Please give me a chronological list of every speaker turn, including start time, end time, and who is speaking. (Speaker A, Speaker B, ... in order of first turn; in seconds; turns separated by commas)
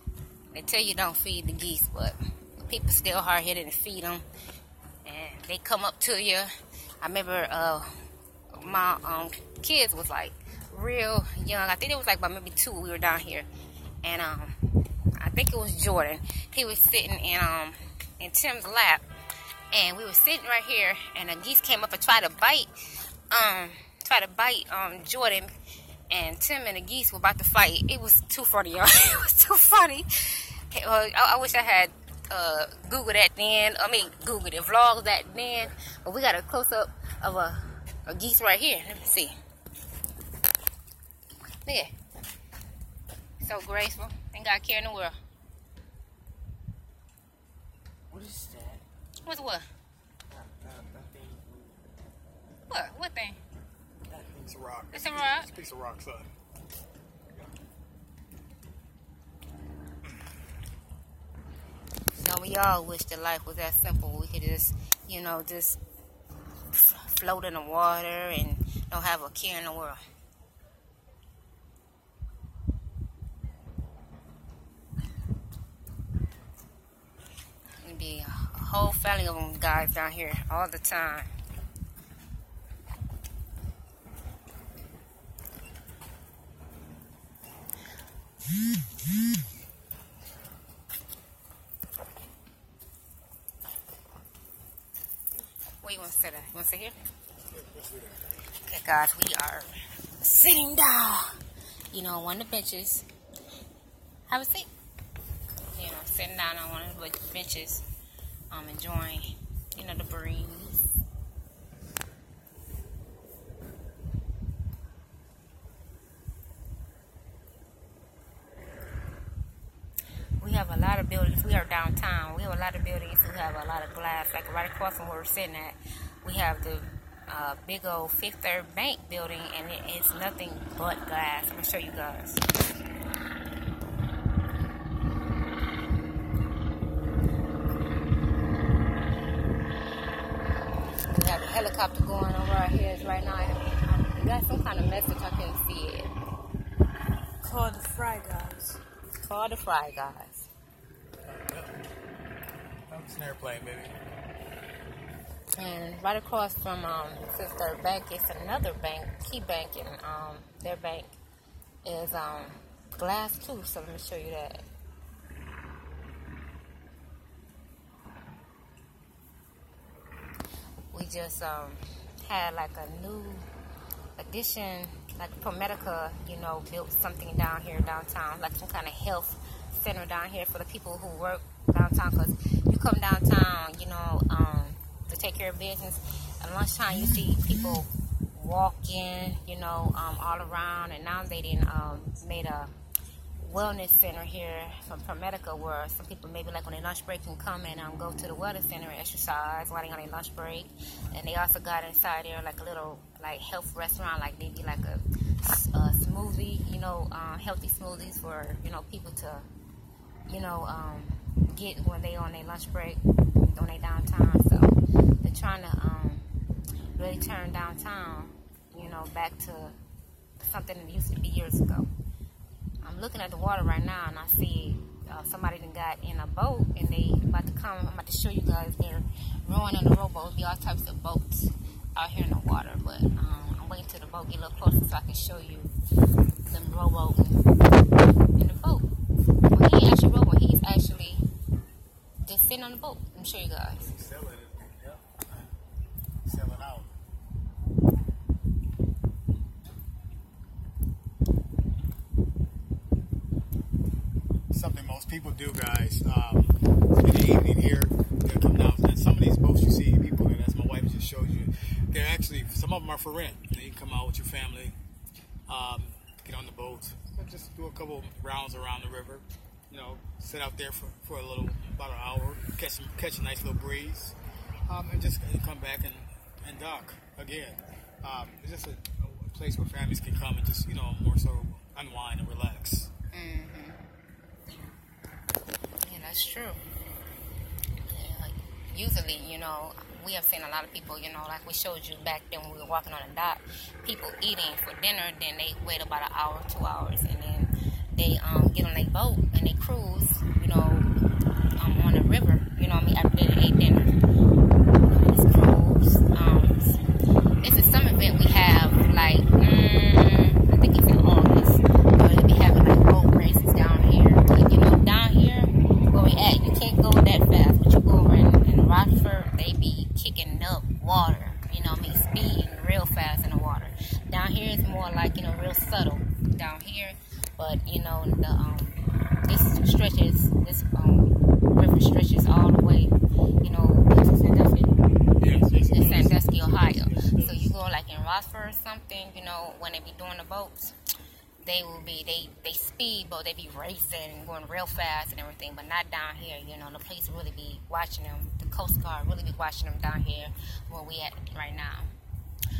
Speaker A: 0.5-4.2, Speaker A: 5.0-6.5, Speaker A: 7.0-7.9, Speaker A: 8.5-13.5, Speaker A: 14.0-14.6, Speaker A: 15.2-19.1, Speaker A: 19.7-22.7, Speaker A: 23.3-25.5, Speaker A: 26.1-39.4, Speaker A: 41.6-41.9, Speaker A: 43.4-45.2, Speaker B: 48.1-48.8, Speaker A: 49.3-49.7, Speaker B: 50.3-51.9, Speaker A: 52.7-53.4, Speaker B: 54.1-54.6, Speaker C: 54.5-56.3, Speaker A: 54.9-55.5, Speaker A: 62.2-65.8, Speaker A: 66.7-70.0, Speaker A: 77.8-81.3, Speaker A: 95.8-97.0, Speaker C: 97.5-98.2, Speaker A: 98.6-101.4, Speaker A: 101.9-103.1, Speaker A: 104.3-104.7, Speaker A: 105.8-107.8, Speaker A: 108.5-111.0, Speaker A: 120.4-132.4, Speaker A: 141.1-146.1, Speaker B: 147.4-148.8, Speaker A: 149.2-150.5, Speaker C: 151.3-151.8, Speaker C: 152.9-154.0, Speaker A: 155.6-161.1, Speaker A: 161.8-164.7, Speaker A: 170.9-173.5, Speaker A: 174.2-192.7, Speaker A: 193.4-209.5, Speaker A: 210.3-216.3, Speaker A: 217.0-219.8, Speaker A: 220.4-221.9, Speaker A: 222.8-235.7, Speaker A: 236.5-237.4, Speaker A: 238.4-238.9, Speaker A: 239.5-241.2, Speaker A: 242.2-243.9, Speaker C: 243.8-245.5, Speaker C: 246.2-246.9, Speaker C: 254.5-264.8, Speaker C: 265.5-282.9, Speaker A: 283.1-283.8, Speaker A: 285.8-286.6, Speaker A: 287.9-300.9, Speaker A: 301.6-304.0, Speaker A: 304.8-306.8, Speaker A: 307.4-334.8, Speaker C: 335.2-337.5, Speaker A: 335.7-340.8, Speaker A: 341.4-351.9